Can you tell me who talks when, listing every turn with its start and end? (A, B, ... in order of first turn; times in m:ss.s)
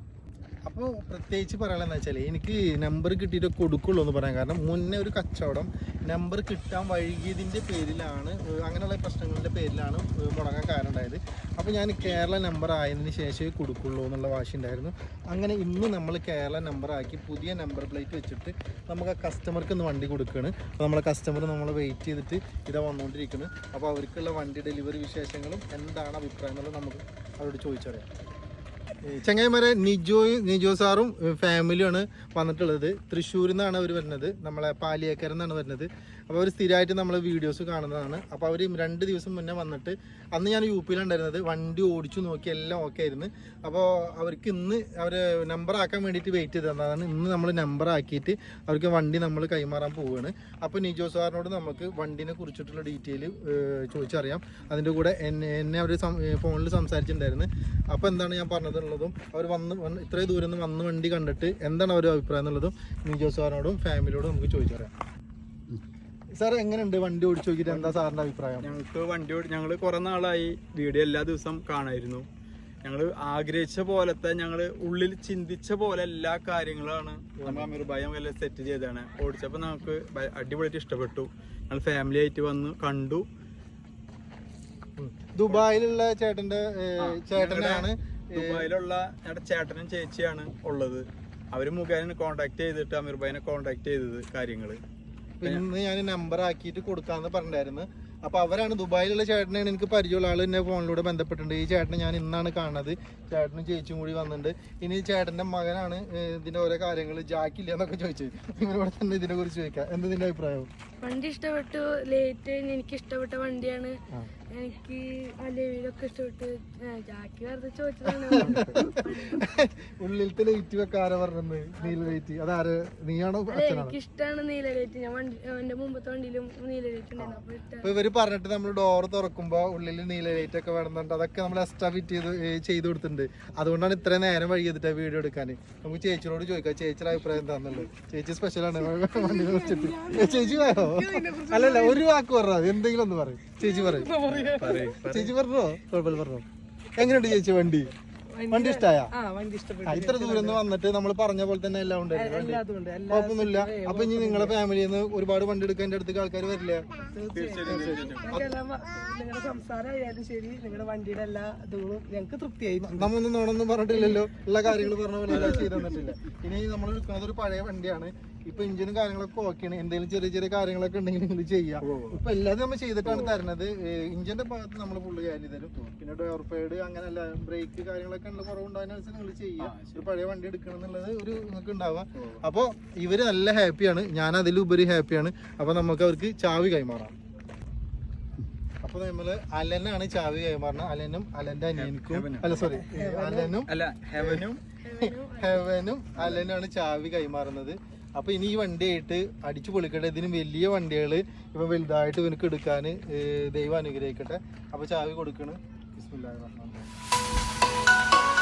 0:00.6-0:28.1 A
0:29.0-1:04.9 A
1:06.3-1:08.8 A
1:07.6-1:08.0 B
1:08.6-1:12.3 B
1:12.8-1:23.3 B
1:17.4-1:17.7 A
1:25.0-1:28.7 A
1:27.0-1:34.8 B
1:35.4-1:50.7 A
1:51.0-1:54.0 C
1:54.5-1:59.4 C
1:58.1-2:04.0 A
2:01.8-2:02.1 C
2:03.5-2:07.9 C
2:07.2-2:27.9 A
2:19.3-2:22.0 D
2:23.6-2:25.0 D
2:24.1-2:25.3 B
2:28.3-2:30.6 D
2:28.5-2:29.1 A
2:29.8-2:37.0 A
2:32.1-2:34.6 D
2:37.1-2:43.1 D
2:37.3-2:38.6 B
2:37.7-2:38.1 A
2:42.8-3:07.1 A
2:43.9-2:44.2 D
2:45.3-2:46.0 B
2:51.8-2:52.2 B
2:53.0-2:53.4 B
2:59.6-3:00.1 B
3:02.2-3:02.4 B
3:08.8-3:14.4 A
3:11.7-3:12.8 B
3:12.6-3:13.6 D
3:13.6-3:14.6 B
3:14.8-3:15.7 C
3:15.0-3:26.9 A